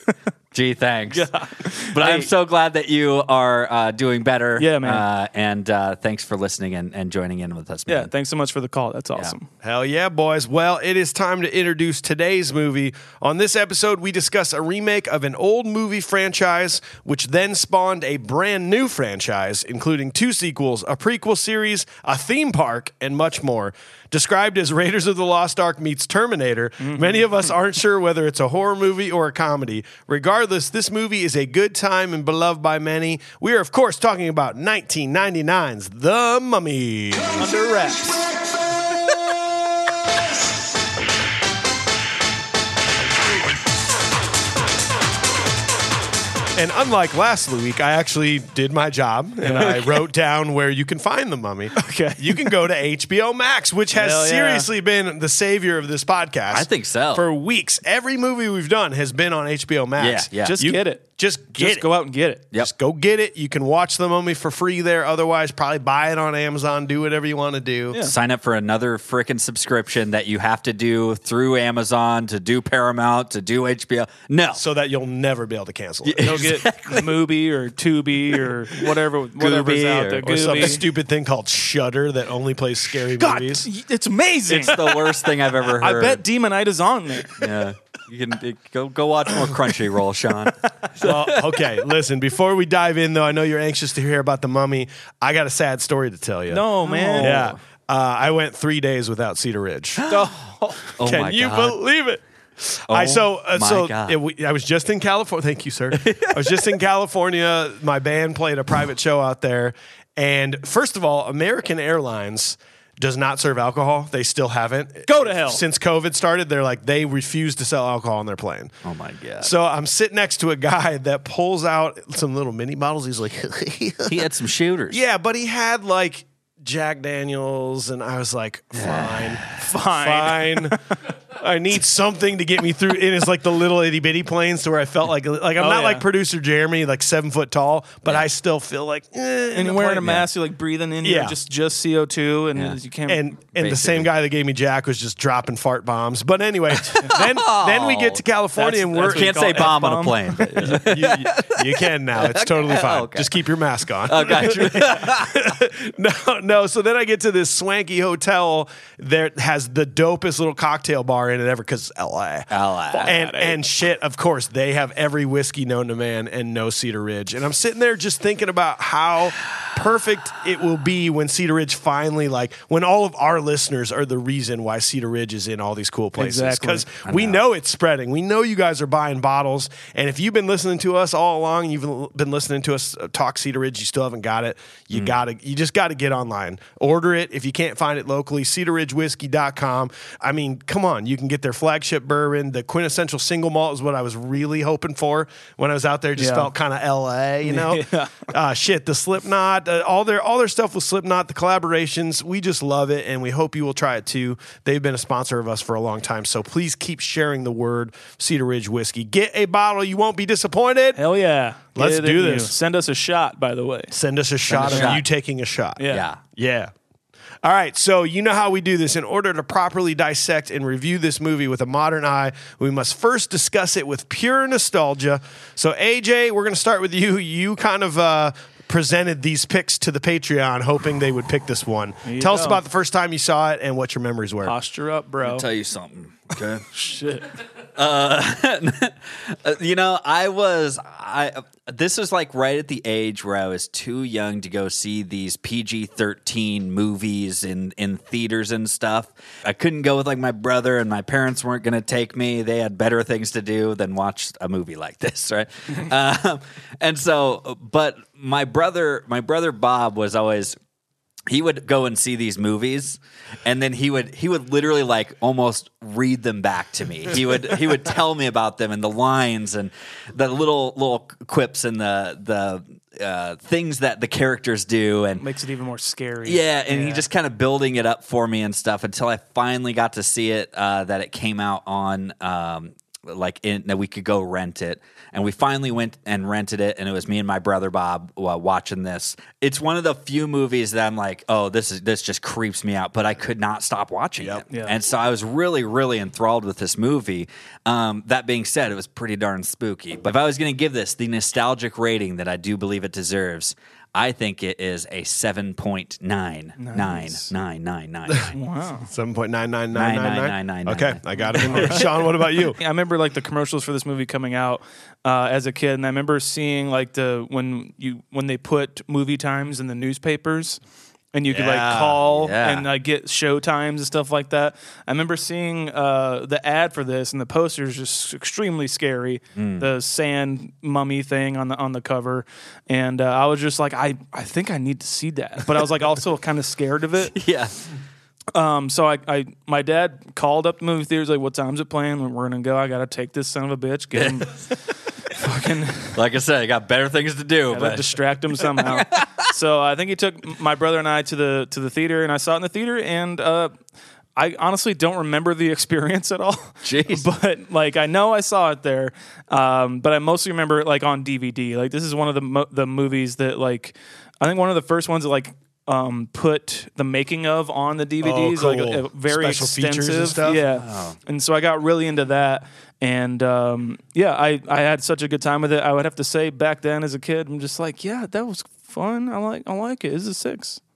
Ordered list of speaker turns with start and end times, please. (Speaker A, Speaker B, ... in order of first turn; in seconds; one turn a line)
Speaker A: 0.5-1.3
Speaker B: 1.1-2.3
Speaker A: 1.8-8.1
Speaker B: 4.6-5.0
Speaker B: 7.9-9.5
Speaker C: 9.6-37.4
Speaker B: 26.8-27.3
Speaker B: 37.4-38.1
Speaker C: 46.5-62.0
Speaker B: 49.4-49.8
Speaker B: 51.7-52.4
Speaker B: 53.9-54.7
Speaker A: 56.5-57.3
Speaker A: 60.0-60.6
Speaker B: 60.4-62.4
Speaker C: 62.5-68.1
Speaker A: 68.0-74.6
Speaker C: 74.5-76.6
Speaker A: 76.0-77.1
Speaker B: 76.2-80.8
Speaker A: 78.8-80.8
Speaker C: 80.2-83.7
Speaker B: 83.2-85.0
Speaker A: 84.5-86.2
Speaker B: 85.7-87.4
Speaker A: 87.3-91.7
Speaker C: 91.0-96.6
Speaker B: 96.5-97.5
Speaker A: 96.8-97.6
Speaker C: 97.2-100.0
Speaker A: 100.0-101.8
Speaker B: 100.1-101.0
Speaker C: 101.0-118.7
Speaker A: 102.9-104.2
Speaker A: 105.9-106.7
Speaker B: 115.1-115.6
Speaker A: 118.8-119.5
Speaker C: 119.4-124.3
Speaker A: 124.1-125.0
Speaker C: 124.9-130.8
Speaker A: 128.8-129.6
Speaker B: 129.6-130.8
Speaker C: 131.3-140.0
Speaker B: 135.6-136.1
Speaker B: 139.5-143.2
Speaker A: 140.0-140.3
Speaker C: 141.0-141.3
Speaker C: 143.1-149.7
Speaker A: 143.6-144.1
Speaker A: 146.8-148.2
Speaker B: 148.6-151.0
Speaker A: 149.0-153.3
Speaker C: 150.6-162.5
Speaker A: 154.1-155.4
Speaker A: 162.5-163.5
Speaker B: 162.9-163.3
Speaker C: 163.0-211.0
Speaker B: 176.2-176.9
Speaker A: 177.0-177.4
Speaker B: 196.2-196.5
Speaker B: 197.4-198.3
Speaker B: 210.9-213.9
Speaker C: 211.8-212.5
Speaker C: 213.9-215.8
Speaker A: 214.5-215.0
Speaker B: 214.6-215.0
Speaker B: 215.8-216.1
Speaker A: 215.9-216.2
Speaker C: 216.3-216.7
Speaker C: 217.4-234.5
Speaker B: 232.0-232.6
Speaker B: 234.4-235.4
Speaker A: 235.2-236.7
Speaker B: 236.7-237.3
Speaker A: 237.8-260.6
Speaker A: 261.3-275.2
Speaker B: 275.2-277.0
Speaker A: 276.2-308.3
Speaker B: 294.5-294.8
Speaker B: 306.6-307.3
Speaker B: 308.3-308.9
Speaker C: 308.9-312.6
Speaker A: 309.7-311.8
Speaker B: 311.4-311.9
Speaker B: 312.5-320.6
Speaker B: 321.1-337.1
Speaker C: 321.3-321.9
Speaker A: 321.5-322.7
Speaker A: 329.4-329.7
Speaker A: 337.1-337.5
Speaker B: 338.3-344.4
Speaker A: 343.9-344.3
Speaker B: 345.1-346.0
Speaker A: 345.9-349.3
Speaker B: 347.5-353.5
Speaker B: 354.1-380.6
Speaker A: 356.6-357.1
Speaker C: 368.0-370.4
Speaker A: 370.5-370.9